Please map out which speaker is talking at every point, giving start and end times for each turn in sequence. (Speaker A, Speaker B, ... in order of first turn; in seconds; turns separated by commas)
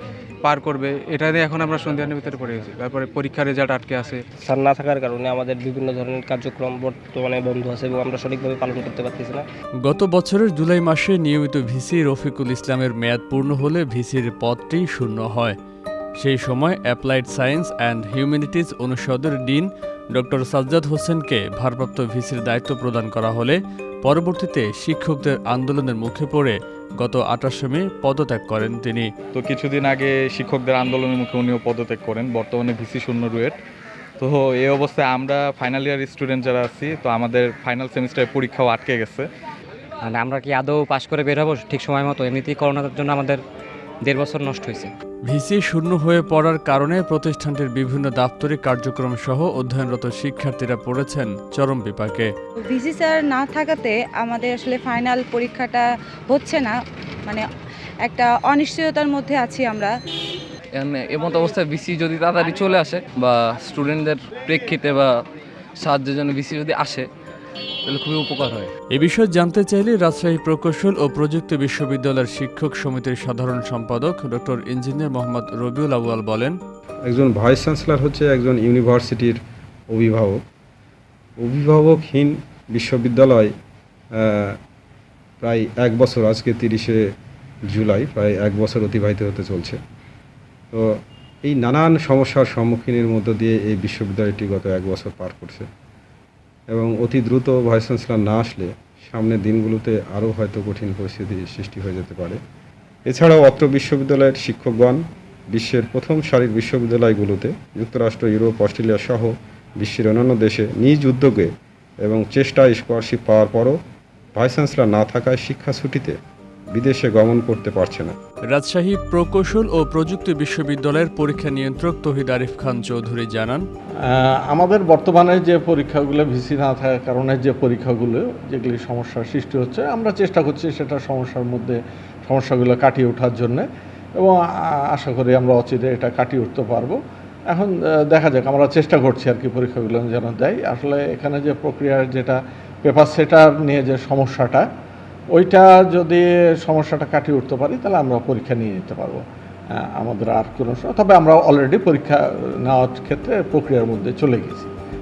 Speaker A: 0.4-4.2, Speaker B: 4.7-9.3, Speaker C: 9.8-15.6, Speaker C: 16.2-29.1, Speaker D: 29.3-33.6, Speaker D: 34.2-39.3, Speaker E: 40.0-43.4, Speaker E: 44.0-44.9, Speaker C: 45.3-52.3, Speaker F: 52.7-56.8, Speaker F: 58.0-59.9, Speaker G: 60.8-65.2, Speaker G: 65.8-67.0, Speaker G: 67.8-68.7, Speaker C: 68.9-76.5, Speaker H: 77.1-79.4, Speaker H: 79.9-80.4, Speaker H: 81.4-83.5, Speaker H: 84.2-84.6, Speaker H: 85.4-87.0, Speaker H: 87.7-89.8, Speaker H: 90.7-95.7, Speaker H: 96.7-102.4, Speaker H: 103.1-105.0, Speaker H: 105.5-111.5, Speaker H: 112.0-113.8, Speaker H: 114.3-116.1, Speaker H: 116.7-118.1, Speaker C: 118.5-123.6, Speaker I: 124.0-134.4, Speaker I: 134.9-137.0, Speaker I: 137.5-144.7, Speaker I: 145.3-149.2, Speaker I: 149.9-154.7